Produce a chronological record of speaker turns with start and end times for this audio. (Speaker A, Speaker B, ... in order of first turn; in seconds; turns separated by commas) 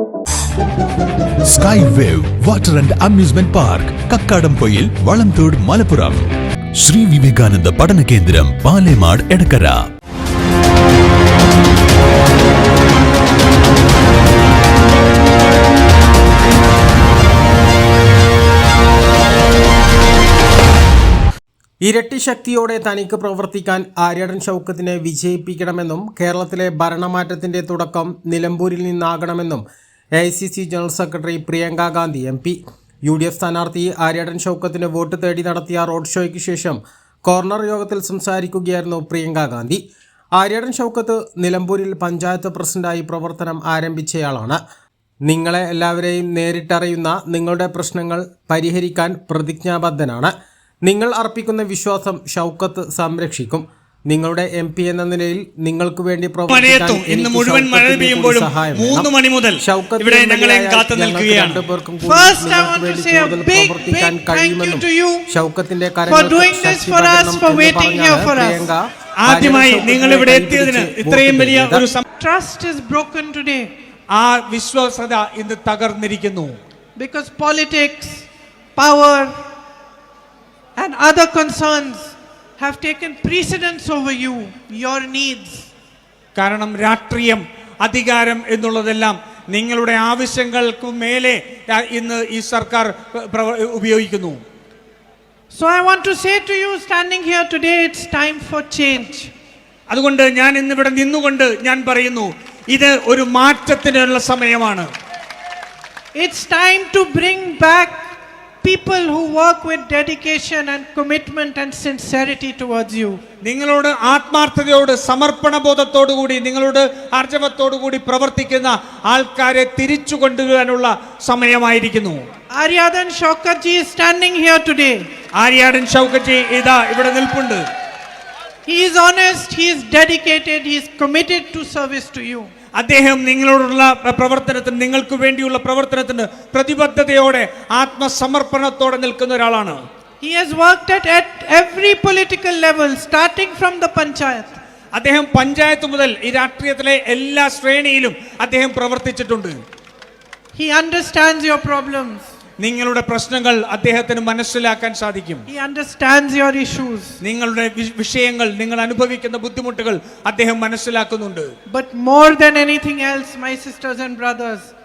Speaker A: 1.5-6.2, Speaker A: 6.8-9.8, Speaker B: 21.8-29.6, Speaker B: 30.2-39.8, Speaker B: 40.4-44.6, Speaker B: 45.3-50.3, Speaker B: 50.9-71.9, Speaker C: 56.5-61.6, Speaker D: 62.0-65.3, Speaker D: 66.1-68.7, Speaker C: 69.2-72.0, Speaker D: 72.2-73.7, Speaker C: 74.1-76.5, Speaker D: 77.0-79.3, Speaker D: 80.8-85.7, Speaker C: 86.3-94.4, Speaker D: 95.5-99.3, Speaker C: 99.9-104.9, Speaker D: 106.2-113.2, Speaker C: 113.4-122.2, Speaker D: 122.6-125.0, Speaker C: 125.4-127.6, Speaker D: 128.7-132.5, Speaker C: 132.8-139.8, Speaker D: 140.2-144.6, Speaker C: 144.9-149.6, Speaker D: 150.5-152.3, Speaker C: 152.6-155.5, Speaker D: 155.5-157.2, Speaker C: 157.2-161.5, Speaker D: 161.7-164.7